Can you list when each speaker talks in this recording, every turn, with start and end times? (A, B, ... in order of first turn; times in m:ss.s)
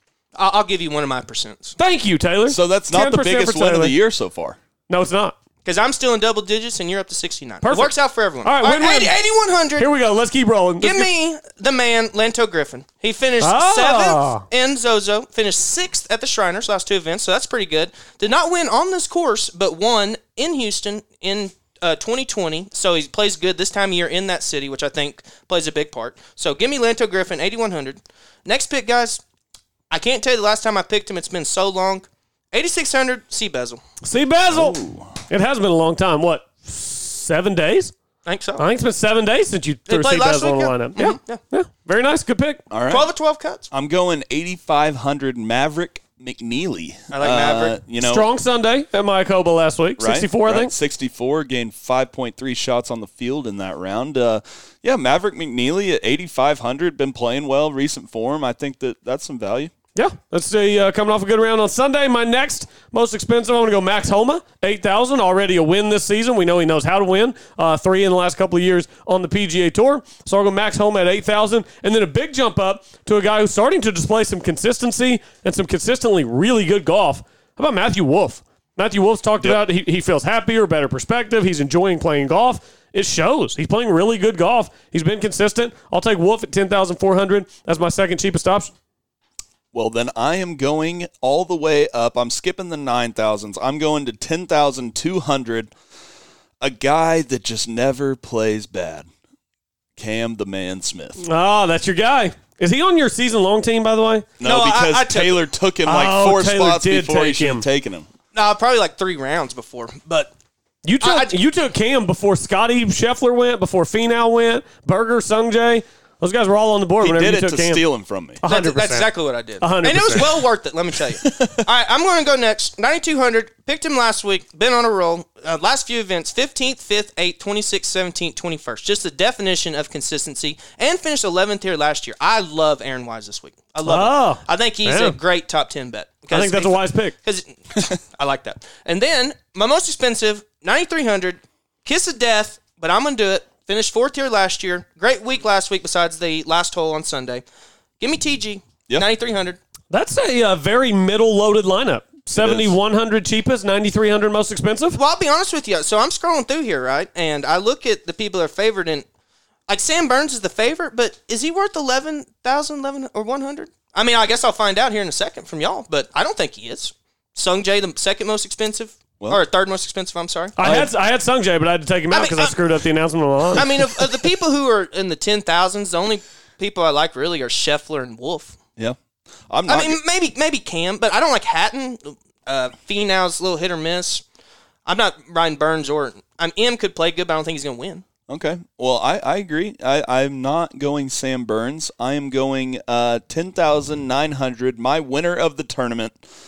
0:00.4-0:01.8 A
0:01.8-0:03.9 B
0:02.5-0:04.6 C
0:04.9-0:05.4 B
0:05.6-0:09.9 A
0:07.6-0:09.2 B
0:09.8-0:11.1 B
0:10.8-0:29.2 A
0:13.4-0:14.4 B
0:29.9-0:33.8 A
0:34.0-0:37.9 B
0:34.5-0:35.2 C
0:38.2-0:38.6 A
0:38.6-0:42.6 B
0:39.9-0:41.4 A
0:42.7-0:43.1 C
0:42.9-0:43.7 A
0:43.7-0:48.2 C
0:47.1-0:47.8 A
0:48.0-0:50.7 B
0:50.0-0:59.7 C
0:59.9-1:28.7 B
1:29.7-1:35.7 C
1:36.6-1:39.1 C
1:40.0-1:41.2 C
1:41.2-1:44.3 B
1:44.4-1:48.1 C
1:44.4-1:45.4 A
1:45.8-1:47.6 B
1:48.3-1:50.3 A
1:50.8-1:57.8 B
1:51.0-1:51.4 A
1:57.0-1:58.4 C
1:58.4-1:59.1 B
1:58.4-2:27.4 A
1:59.6-2:00.4 B
2:01.2-2:01.6 C
2:13.8-2:15.2 B
2:16.3-2:17.2 B
2:28.0-2:29.6 A
2:29.9-2:35.0 B
2:32.4-2:32.8 C
2:34.9-2:39.1 A
2:39.7-2:50.6 A
2:50.6-2:54.0 B
2:50.6-2:50.9 C
2:52.1-2:52.6 A
2:53.5-2:58.6 A
2:59.5-3:00.0 C
2:59.7-3:04.2 A
3:04.8-3:08.0 A
3:08.3-3:16.2 C